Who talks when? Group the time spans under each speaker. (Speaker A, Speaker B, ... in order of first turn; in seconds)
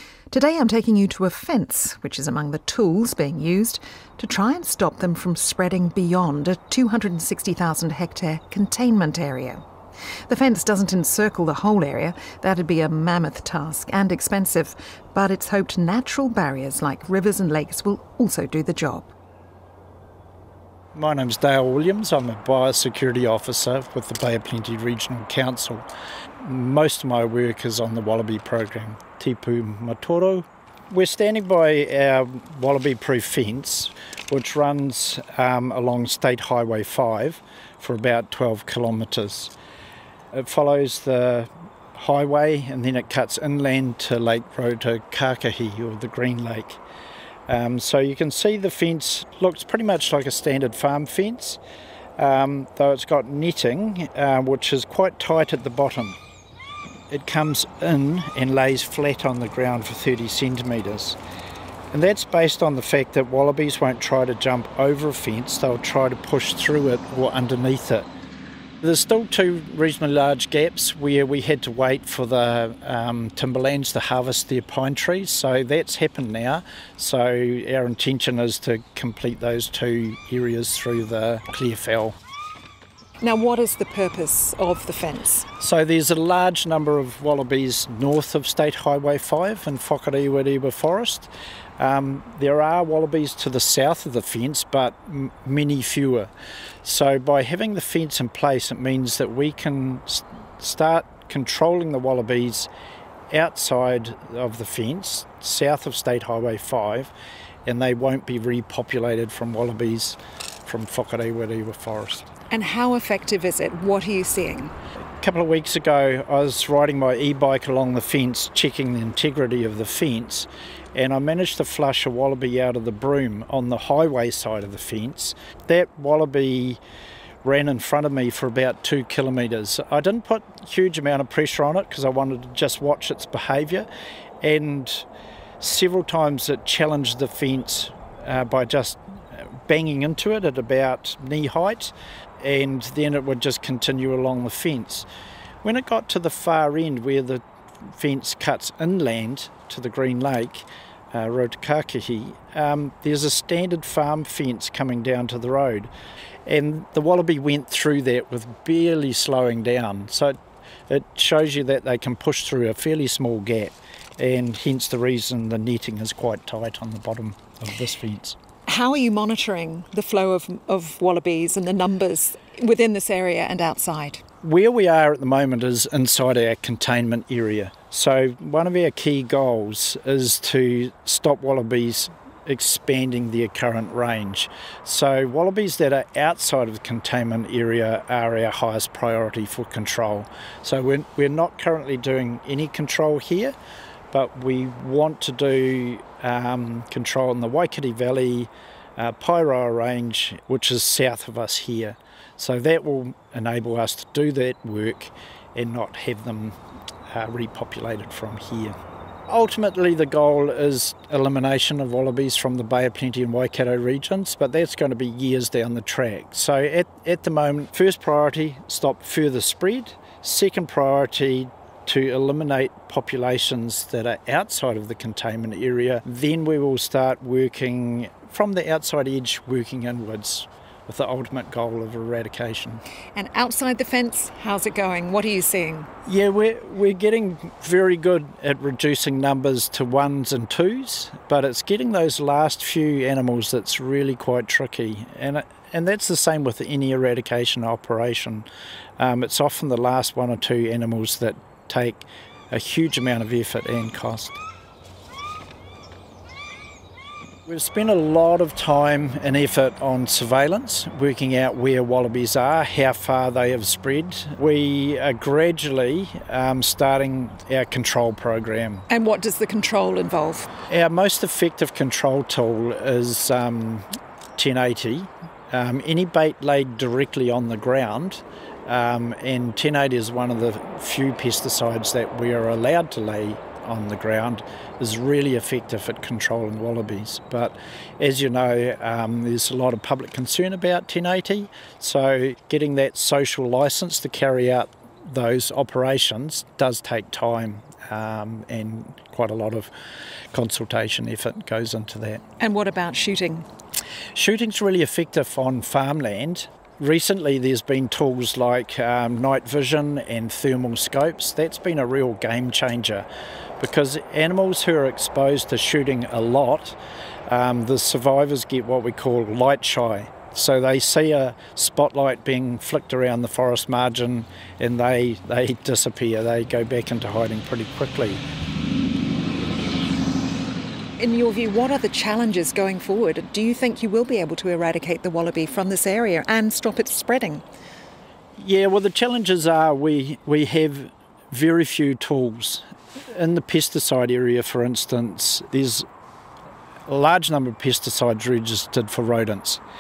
Speaker A: 0.3-9.6, 10.3-19.1, 83.2-85.5, 112.5-114.7, 168.7-174.2, 233.2-235.9, 268.9-270.5, 302.4-303.5, 331.0-337.4
Speaker B: 20.9-25.9, 26.4-39.5, 40.3-46.8, 47.5-51.6, 52.2-56.2, 57.1-61.2, 61.9-68.1, 68.8-82.2, 85.6-96.3, 96.8-102.7, 103.3-107.1, 107.7-112.3, 115.2-126.8, 127.4-133.9, 134.4-135.1, 135.6-145.1, 145.6-155.9, 156.5-160.4, 160.9-168.4, 174.4-193.6, 194.1-206.6, 207.1-208.8, 209.3-232.8, 236.1-248.5, 249.0-254.4, 257.5-268.9, 270.7-273.9, 274.4-299.7, 300.3-302.2, 304.1-313.1, 313.6-316.8, 317.3-328.2, 338.4-345.9, 346.9-349.6